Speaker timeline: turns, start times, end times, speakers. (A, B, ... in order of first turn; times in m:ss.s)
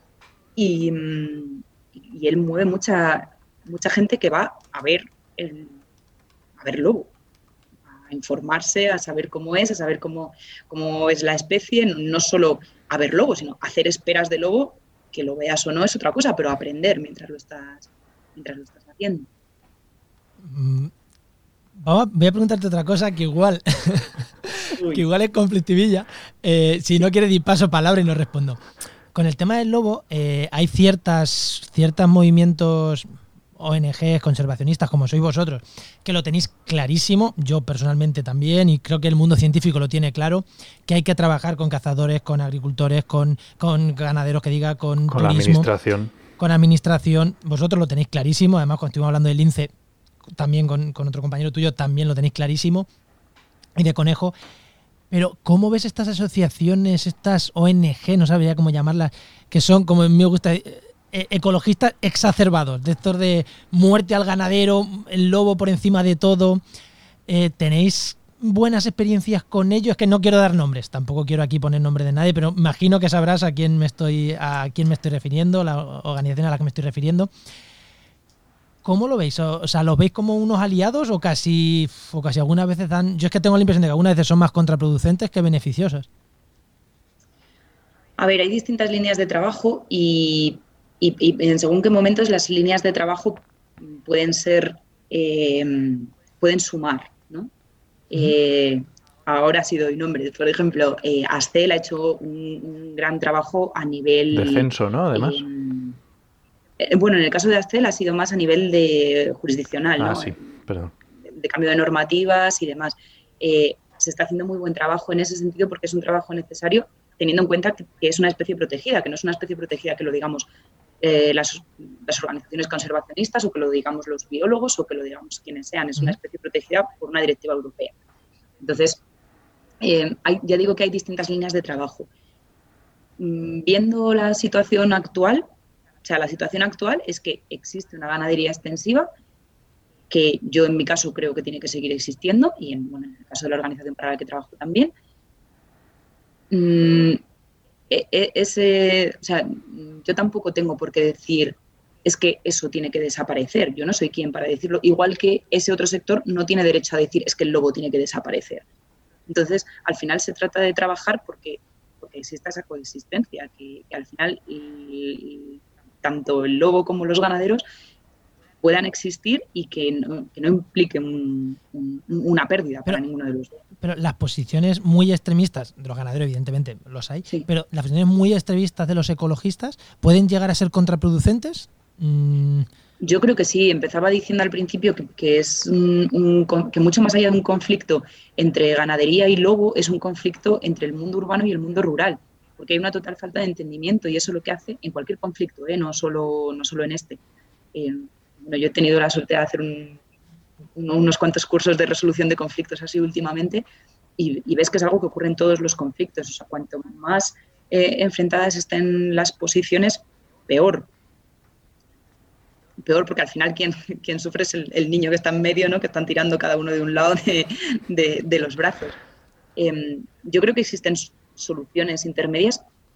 0:00.6-0:05.8 A
0:06.6-0:07.1 A
0:08.1-0:19.3 A
0:20.4-0:20.9 B
0:21.8-0:28.6 B
0:24.8-0:25.0 A
0:29.1-0:33.1 B
0:33.6-0:45.7 B
0:45.1-0:46.1 C
0:46.4-0:49.7 B
0:50.4-0:52.9 B
0:53.8-0:54.4 B
0:55.1-1:06.6 B
1:07.3-1:17.3 B
1:18.8-1:26.1 B
1:28.2-1:37.5 A
1:38.1-1:46.0 A
1:44.3-1:45.4 C
1:46.8-1:50.5 A
1:50.0-1:50.9 C
1:51.3-2:00.5 A
2:01.0-2:08.0 A
2:08.6-2:09.0 A
2:09.8-2:12.1 A
2:13.2-2:15.5 A
2:16.0-2:19.1 A
2:20.1-2:24.9 A
2:26.5-2:27.2 A
2:27.9-2:38.6 A
2:39.3-2:47.6 A
2:48.6-2:53.6 A
2:53.8-3:02.7 B
3:03.0-3:17.2 A
3:17.7-3:20.0 A
3:20.8-3:23.6 A
3:24.2-3:30.9 A
3:32.8-3:39.0 A
3:39.6-3:42.6 A